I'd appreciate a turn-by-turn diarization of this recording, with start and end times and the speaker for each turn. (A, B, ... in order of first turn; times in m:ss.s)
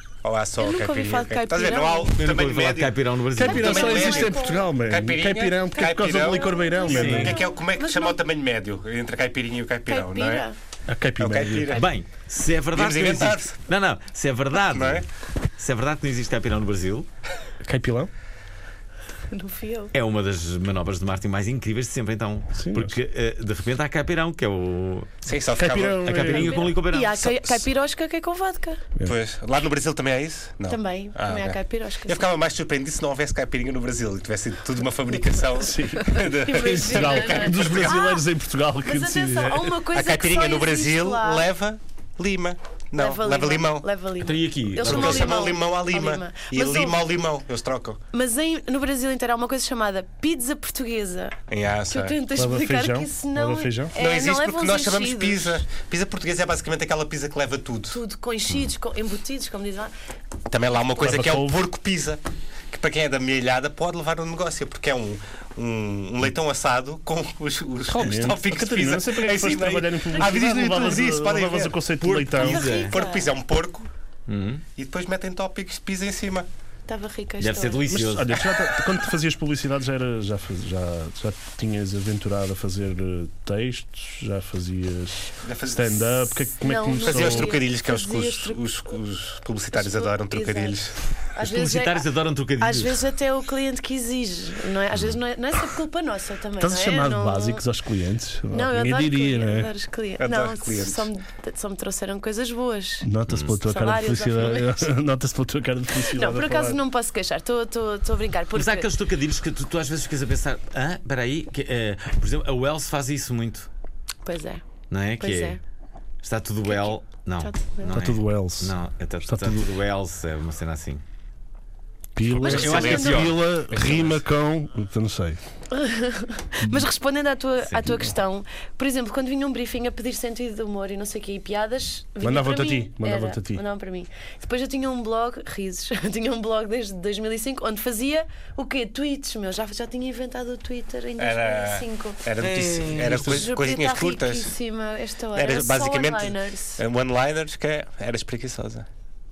0:00.2-0:10.5 A
0:00.6-0:02.1 B
0:02.2-0:04.0 C
0:03.4-0:07.4 D
0:03.4-0:04.7 B
0:05.7-0:08.2 B
0:06.9-0:07.3 C
0:09.9-0:10.6 B
0:10.9-0:11.8 D
0:11.2-0:11.9 A
0:11.8-0:17.1 C
0:12.7-0:13.5 A
0:14.7-0:15.0 A
0:17.6-0:18.1 D
0:19.3-0:19.9 B
0:19.9-0:25.1 C
0:22.6-0:23.0 D
0:25.2-0:26.4 A
0:25.5-0:26.7 D
0:26.0-0:27.5 C
0:26.6-0:28.8 B
0:29.0-0:38.0 A
0:30.7-0:32.3 B
0:35.6-0:39.8 D
0:36.2-0:38.3 B
0:38.8-0:41.5 B
0:39.9-0:43.9 A
0:43.0-0:47.0 B
0:44.2-0:45.5 C
0:44.8-0:48.0 A
0:48.1-0:51.4 B
0:51.5-0:52.2 A
0:51.9-0:55.6 B
0:52.4-0:53.9 D
0:54.0-0:58.0 A
0:57.9-0:59.9 B
1:00.5-1:11.8 A
1:01.0-1:01.6 D
1:07.9-1:12.6 D
1:12.0-1:13.0 C
1:12.4-1:13.9 A
1:12.5-1:13.3 B
1:14.3-1:14.6 C
1:14.8-1:16.5 A
1:16.9-1:17.8 B
1:17.4-1:18.4 C
1:17.9-1:27.6 D
1:25.4-1:26.3 A
1:26.6-1:28.6 B
1:27.0-1:31.0 A
1:29.7-1:30.8 B
1:31.3-1:32.1 B
1:31.4-1:33.0 C
1:32.6-1:37.7 B
1:36.6-1:39.7 D
1:38.5-1:43.1 B
1:40.2-1:41.1 A
1:43.0-1:46.8 D
1:43.3-1:43.6 C
1:43.7-1:44.9 B
1:46.1-1:48.9 B
1:48.6-1:53.7 C
1:54.2-1:54.6 B
1:54.9-1:55.6 C
1:55.2-1:55.6 B
1:56.2-2:01.0 C
1:56.7-1:58.0 B
1:57.9-1:59.7 D
2:02.2-2:05.4 D
2:02.4-2:03.3 B
2:02.4-2:04.2 A
2:02.4-2:03.4 C
2:05.7-2:22.2 B
2:06.6-2:06.9 D
2:12.2-2:13.6 D
2:21.2-2:24.5 A
2:22.4-2:23.5 C
2:23.1-2:26.8 B
2:25.3-2:28.9 A